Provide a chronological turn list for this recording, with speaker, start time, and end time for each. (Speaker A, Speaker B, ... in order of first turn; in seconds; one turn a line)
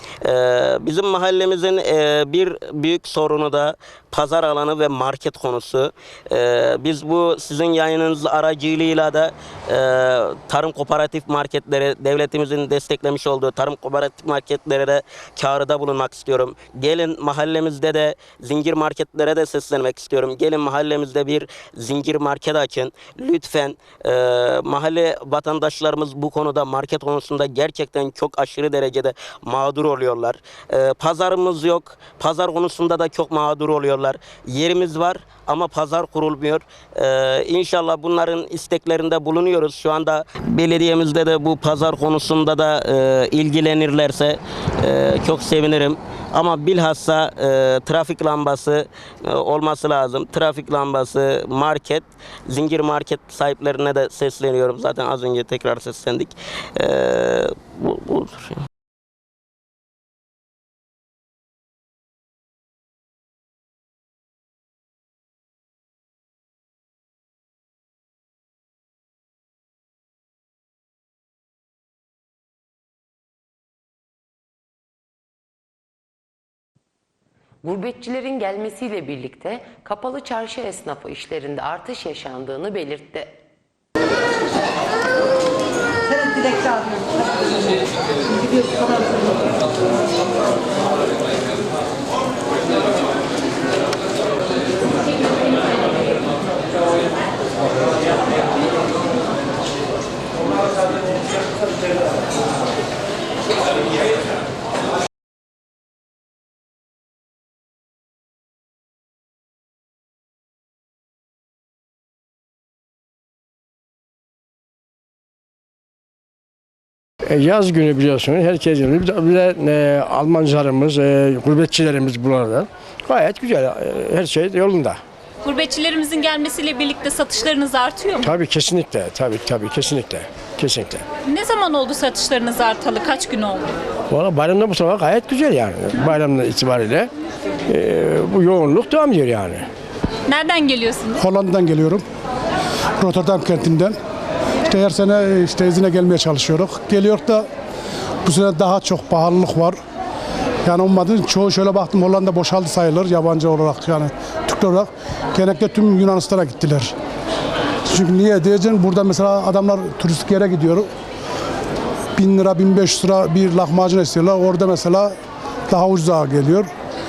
Speaker A: 0.2-58.5
Speaker B: 77.6-83.3
Speaker C: 117.3-125.0
Speaker D: 125.4-128.3
Speaker C: 128.2-131.0
Speaker D: 131.3-133.7
Speaker C: 134.1-137.1
Speaker C: 137.7-139.7
Speaker D: 140.3-141.2
Speaker E: 141.2-142.0
Speaker E: 143.0-144.0
Speaker E: 144.7-147.5
Speaker E: 148.2-149.8
Speaker E: 150.7-156.9
Speaker E: 157.9-160.9
Speaker E: 162.2-165.1
Speaker E: 165.7-166.7